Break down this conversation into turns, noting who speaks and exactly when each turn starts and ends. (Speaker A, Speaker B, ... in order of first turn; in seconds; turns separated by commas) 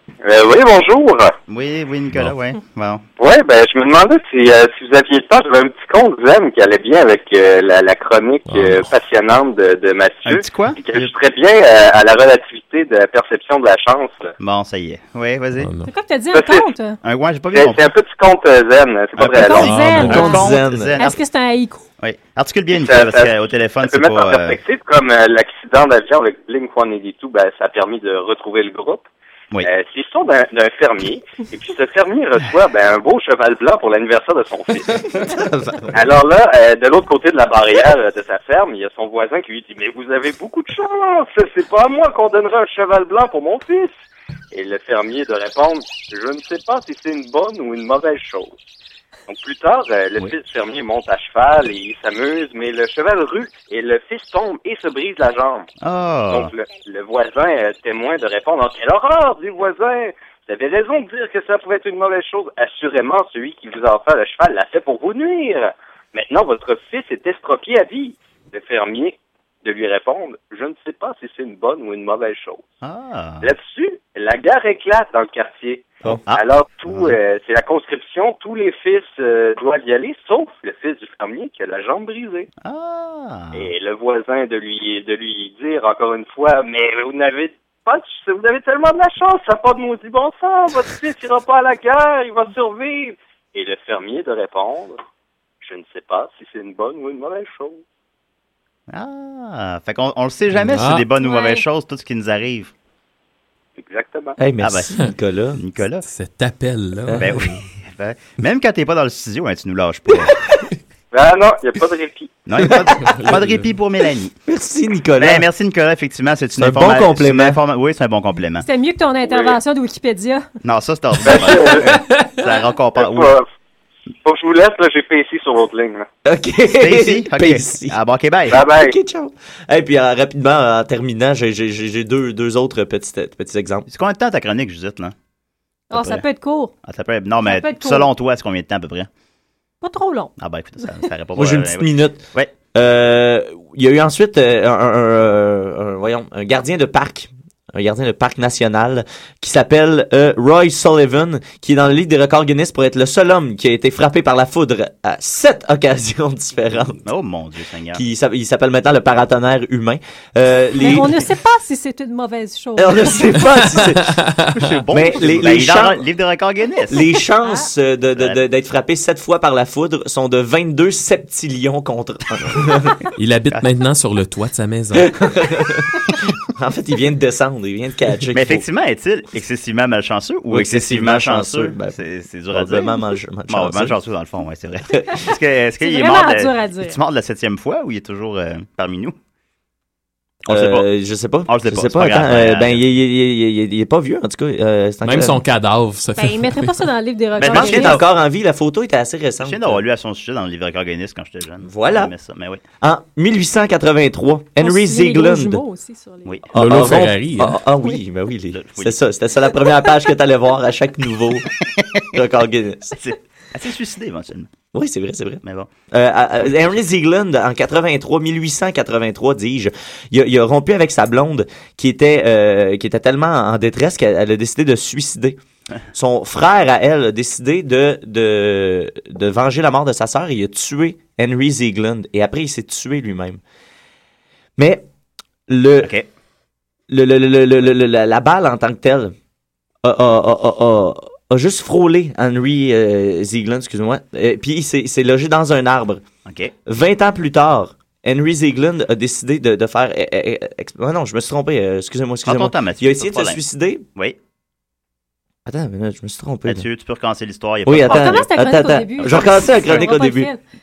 Speaker A: 0.2-1.4, Speaker B: 1.5-3.0, Speaker A: 3.2-14.3, Speaker C: 8.5-8.9, Speaker B: 10.2-11.1, Speaker B: 14.4-15.7, Speaker C: 15.6-15.9, Speaker D: 15.9-17.0, Speaker A: 16.3-16.7, Speaker B: 17.0-17.9, Speaker A: 17.5-19.7, Speaker B: 19.2-21.2, Speaker D: 19.3-21.8, Speaker C: 19.6-20.3, Speaker E: 20.0-21.0, Speaker B: 22.0-24.6, Speaker A: 22.7-29.1, Speaker A: 29.6-35.0, Speaker E: 35.2-36.0, Speaker A: 35.9-43.9, Speaker A: 44.5-48.5, Speaker A: 49.3-55.7, Speaker B: 55.8-56.5, Speaker A: 56.3-72.6, Speaker B: 72.8-73.5, Speaker A: 73.4-82.5, Speaker B: 76.3-77.2, Speaker B: 82.6-83.7, Speaker A: 83.5-95.0, Speaker A: 95.6-97.8, Speaker B: 98.9-102.7, Speaker C: 100.6-101.1, Speaker D: 101.2-101.6, Speaker A: 103.8-104.4, Speaker E: 104.4-105.6, Speaker B: 104.6-104.9, Speaker B: 105.5-106.0, Speaker C: 106.1-107.6, Speaker E: 107.1-107.3, Speaker B: 107.2-110.3, Speaker A: 111.1-112.5, Speaker B: 112.5-114.4, Speaker C: 113.0-113.7, Speaker E: 114.5-115.5, Speaker B: 115.2-118.7, Speaker E: 116.6-117.6, Speaker D: 118.6-120.5, Speaker A: 119.3-119.5, Speaker B: 120.6-123.3, Speaker A: 121.3-121.8, Speaker C: 121.8-122.4, Speaker A: 123.0-123.5, Speaker A: 124.2-126.1, Speaker E: 126.2-128.0, Speaker B: 126.8-128.6, Speaker E: 128.5-133.9, Speaker A: 128.5-128.9, Speaker B: 133.9-135.1, Speaker D: 135.9-136.7, Speaker B: 135.9-136.2, Speaker B: 136.9-139.1, Speaker D: 137.4-138.1, Speaker D: 139.8-140.3, Speaker B: 140.4-142.5, Speaker E: 141.3-157.0, Speaker B: 157.0-158.0, Speaker E: 157.9-161.3, Speaker D: 160.8-163.4, Speaker E: 162.8-164.2, Speaker C: 164.0-164.7, Speaker B: 164.5-167.0, Speaker E: 164.9-166.0, Speaker E: 166.9-172.9, Speaker D: 167.4-167.7, Speaker B: 168.2-168.4, Speaker C: 173.2-175.1, Speaker E: 175.0-175.9, Speaker E: 176.5-178.6, Speaker B: 178.3-183.0, Speaker E: 180.5-182.0, Speaker E: 182.5-183.9, Speaker B: 183.5-189.2, Speaker D: 185.8-187.0, Speaker B: 190.5-190.9, Speaker E: 190.5-195.4, Speaker B: 191.5-192.8, Speaker C: 195.0-196.9, Speaker D: 196.2-198.0, Speaker B: 197.4-198.0, Speaker E: 197.4-199.8, Speaker B: 199.4-202.6, Speaker E: 201.7-202.1, Speaker E: 202.8-205.6, Speaker D: 204.6-206.4, Speaker E: 206.5-211.5, Speaker C: 206.6-207.6, Speaker B: 208.5-209.0, Speaker B: 211.6-212.2, Speaker E: 212.1-213.0, Speaker B: 213.0-214.5, Speaker E: 214.7-225.4, Speaker B: 215.4-215.7, Speaker E: 225.9-233.4, Speaker E: 234.6-234.8, Speaker E: 235.5-235.9, Speaker B: 235.8-236.1, Speaker E: 236.9-239.1, Speaker E: 239.8-246.0, Speaker B: 246.3-246.5, Speaker E: 246.7-253.8, Speaker B: 252.2-253.4, Speaker E: 255.5-256.7, Speaker B: 256.5-258.3, Speaker E: 257.7-260.3, Speaker D: 257.8-260.4, Speaker B: 259.1-259.7